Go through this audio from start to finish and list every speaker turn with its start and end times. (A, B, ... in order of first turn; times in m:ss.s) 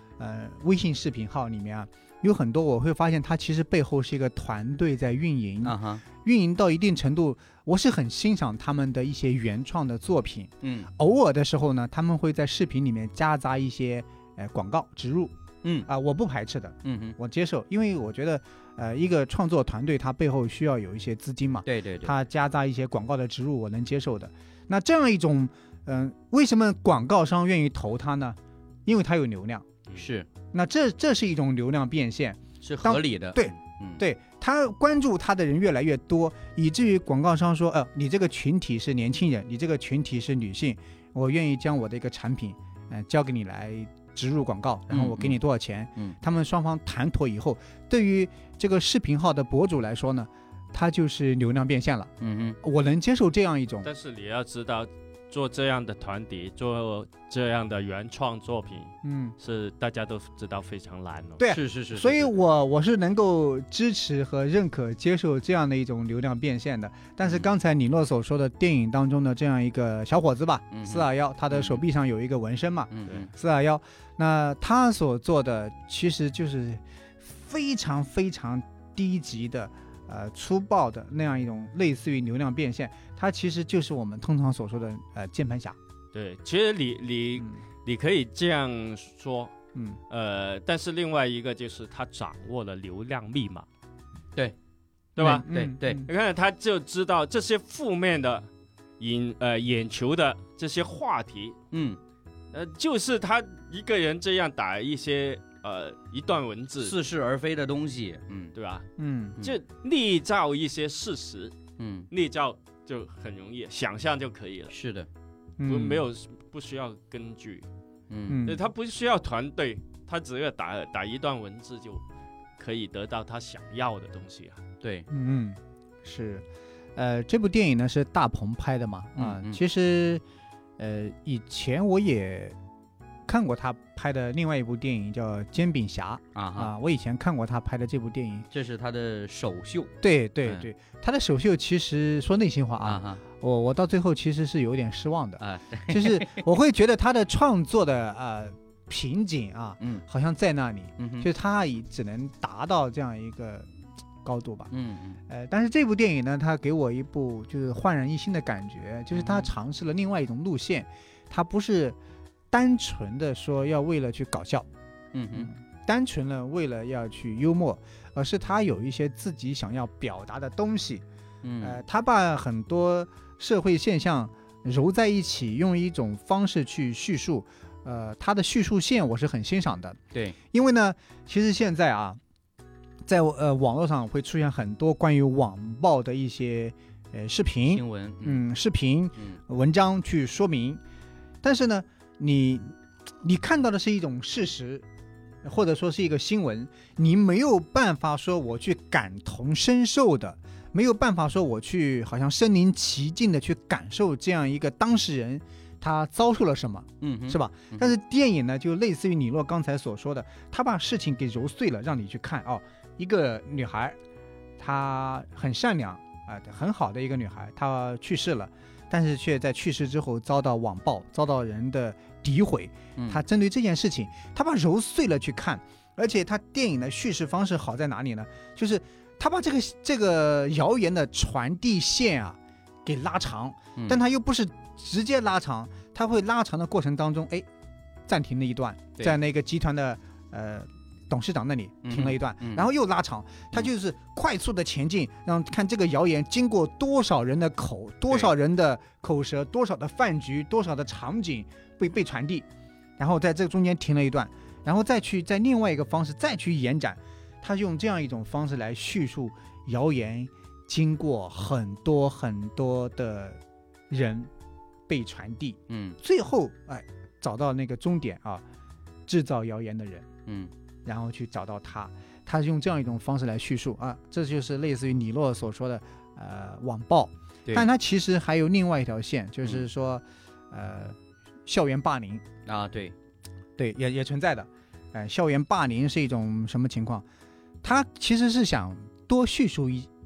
0:00.2-0:15.3 A
0:05.6-0:06.0 B
0:10.6-0:10.9 B
0:15.6-0:15.9 B
0:15.9-0:29.7 A
0:16.8-0:17.2 B
0:21.6-0:22.2 B
0:30.0-0:30.3 B
0:30.5-0:53.9 A
0:32.6-0:34.0 B
0:44.9-0:45.4 B
0:52.2-0:52.6 B
0:53.8-1:01.4 C
0:59.0-0:59.4 A
1:01.4-1:25.8 A
1:01.5-1:02.4 B
1:07.2-1:07.5 B
1:10.7-1:11.8 B
1:12.9-1:13.3 B
1:26.1-1:29.5 C
1:29.7-1:30.0 A
1:30.1-1:33.7 C
1:35.2-1:38.5 C
1:35.2-1:36.1 A
1:35.5-1:36.0 B
1:39.0-1:41.6 C
1:41.7-1:42.0 B
1:42.5-1:47.0 C
1:46.8-1:48.5 B
1:48.5-1:48.9 C
1:49.0-1:49.4 A
1:49.4-1:51.5 C
1:51.8-1:52.1 B
1:52.1-1:54.7 C
1:54.7-1:55.1 B
1:55.6-1:56.0 A
1:55.6-1:57.7 C
1:58.1-1:58.4 B
1:58.3-1:58.6 A
1:58.4-2:02.0 C
2:02.6-2:04.6 C
2:04.8-2:05.1 B
2:05.1-2:10.2 A
2:09.2-2:09.6 B
2:10.8-2:12.6 A
2:13.3-2:18.5 A
2:16.4-2:16.7 B
2:18.5-2:19.9 B
2:20.0-2:33.7 A
2:22.8-2:23.2 B
2:25.4-2:26.4 B
2:31.0-2:31.3 B
2:34.2-2:34.7 A
2:34.7-2:35.2 B
2:35.3-2:42.0 A
2:39.1-2:39.5 B
2:42.5-2:44.7 A
2:45.1-2:45.5 B
2:45.3-2:51.0 A
2:51.4-2:51.8 B
2:51.6-3:02.2 A
3:03.0-3:10.8 A
3:07.7-3:08.4 B
3:11.4-3:14.8 A
3:15.4-3:34.0 A
3:27.0-3:27.9 B
3:34.6-3:57.5 A
3:43.0-3:43.2 B
3:53.8-3:54.0 B
3:58.1-4:12.5 A
4:01.8-4:02.7 B
4:13.0-4:24.3 A
4:24.9-4:28.4 A
4:25.7-4:26.0 B
4:29.1-4:30.1 A
4:30.8-4:42.2 A
4:42.5-4:43.0 B
4:43.6-4:47.0 A
4:47.6-4:49.9 A